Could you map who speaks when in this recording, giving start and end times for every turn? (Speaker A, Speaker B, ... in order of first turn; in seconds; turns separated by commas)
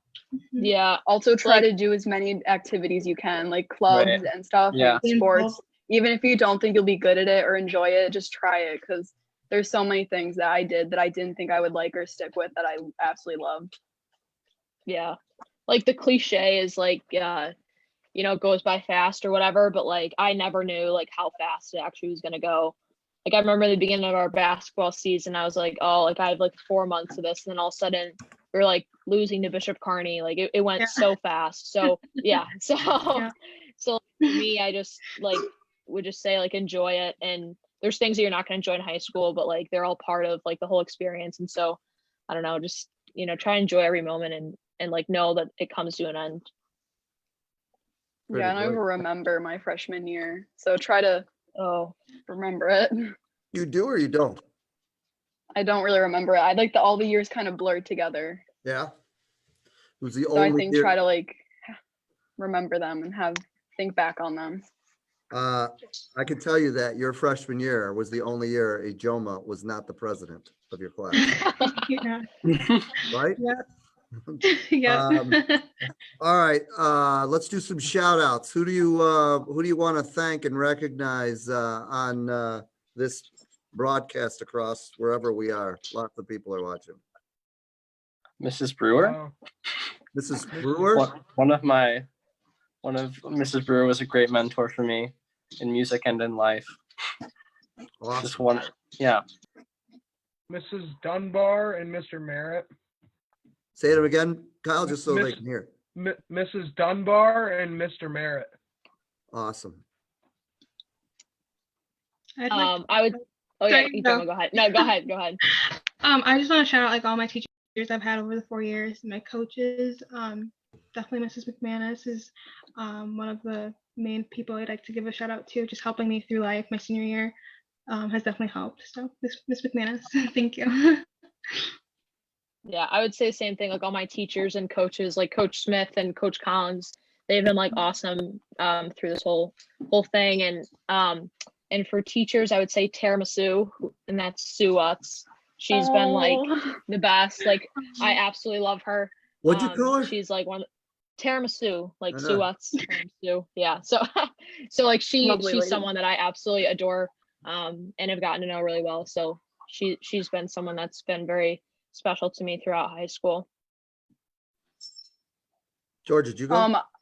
Speaker A: 0.4-0.7, Speaker B: 0.6-1.7, Speaker C: 1.1-13.7, Speaker D: 3.9-5.0, Speaker A: 5.0-5.6, Speaker B: 14.9-15.2, Speaker B: 15.7-17.5, Speaker B: 18.1-46.5, Speaker A: 30.8-31.0, Speaker E: 48.3-48.8, Speaker C: 48.3-51.3, Speaker B: 51.6-51.9, Speaker C: 52.3-53.1, Speaker E: 53.5-54.4, Speaker C: 55.5-58.4, Speaker E: 58.6-58.9, Speaker E: 60.0-60.9, Speaker C: 60.3-61.7, Speaker C: 62.4-64.6, Speaker E: 65.3-71.4, Speaker A: 71.1-72.3, Speaker A: 72.9-73.6, Speaker E: 73.1-73.4, Speaker E: 74.3-75.4, Speaker A: 74.4-75.7, Speaker E: 76.2-87.0, Speaker D: 88.4-89.2, Speaker F: 89.0-89.3, Speaker E: 90.1-91.1, Speaker F: 90.6-91.0, Speaker D: 90.9-92.1, Speaker D: 92.8-96.8, Speaker E: 98.0-98.6, Speaker D: 98.2-99.2, Speaker F: 100.5-102.7, Speaker E: 103.8-105.7, Speaker F: 104.9-105.4, Speaker F: 105.9-108.5, Speaker E: 109.3-109.8, Speaker A: 112.4-114.9, Speaker B: 112.5-115.4, Speaker A: 115.6-127.3, Speaker A: 127.9-131.7, Speaker B: 132.7-150.7, Speaker C: 145.7-146.7, Speaker E: 149.4-150.1, Speaker B: 151.2-163.4, Speaker E: 152.1-152.4, Speaker C: 155.2-155.9, Speaker E: 166.1-166.7, Speaker C: 166.5-166.8